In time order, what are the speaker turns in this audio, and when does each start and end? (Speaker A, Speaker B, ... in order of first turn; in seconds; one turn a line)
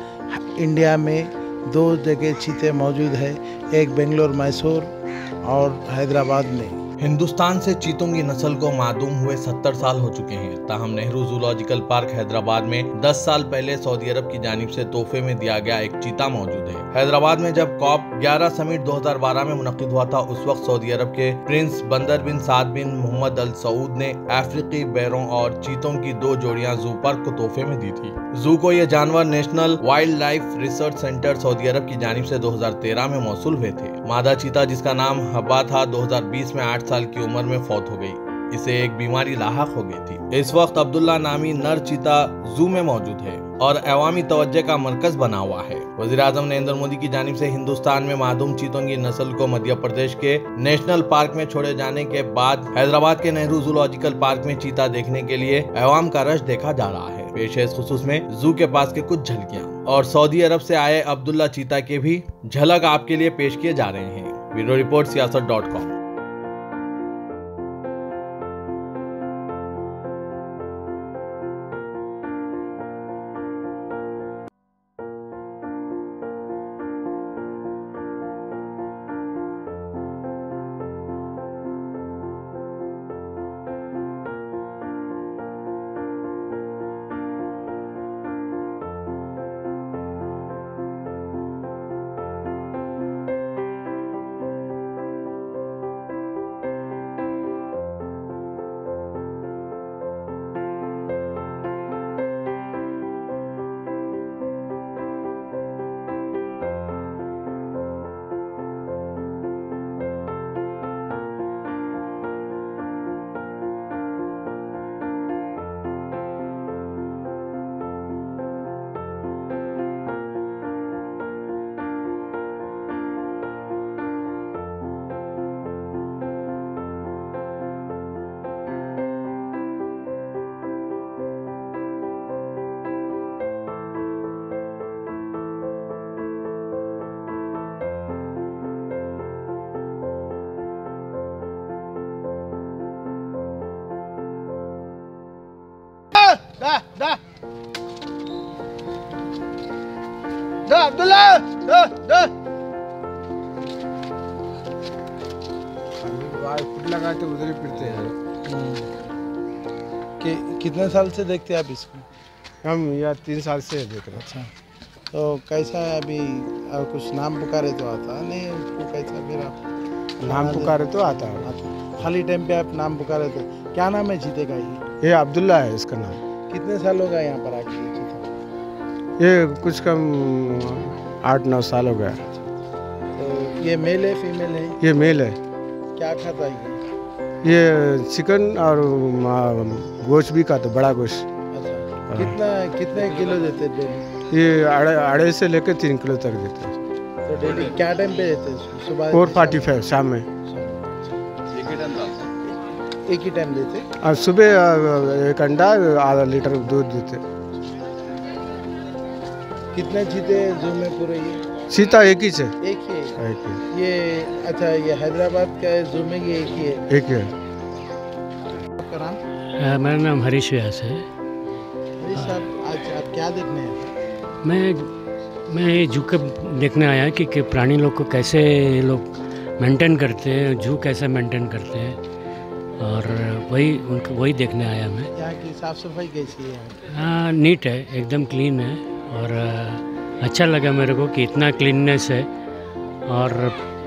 Speaker A: 0.3-4.9
Speaker A: 5.4-6.8
Speaker B: 7.0-65.9
Speaker A: 146.1-147.2
Speaker A: 150.7-152.3
Speaker C: 156.0-158.2
Speaker A: 158.5-158.9
Speaker A: 160.2-162.0
Speaker C: 162.6-164.2
Speaker A: 164.1-164.5
Speaker A: 165.1-169.6
Speaker C: 170.2-171.5
Speaker A: 170.2-174.8
Speaker C: 175.0-176.2
Speaker A: 176.5-178.2
Speaker C: 179.2-182.2
Speaker A: 182.2-182.5
Speaker A: 183.2-184.8
Speaker C: 184.8-185.4
Speaker A: 186.0-186.8
Speaker C: 187.4-191.2
Speaker A: 191.5-194.1
Speaker C: 192.1-192.3
Speaker C: 194.3-196.7
Speaker A: 197.2-199.9
Speaker C: 199.1-200.3
Speaker A: 200.4-201.9
Speaker A: 203.0-203.8
Speaker C: 204.0-207.2
Speaker A: 209.7-211.4
Speaker C: 211.7-212.5
Speaker A: 212.6-213.2
Speaker C: 213.2-213.6
Speaker A: 213.7-216.9
Speaker C: 216.9-217.3
Speaker A: 218.8-219.2
Speaker D: 219.6-221.1
Speaker A: 222.0-223.9
Speaker D: 222.1-222.4
Speaker D: 224.4-224.9
Speaker D: 225.5-232.0
Speaker D: 232.8-235.1
Speaker A: 235.1-236.8
Speaker D: 236.9-242.3
Speaker D: 243.1-243.6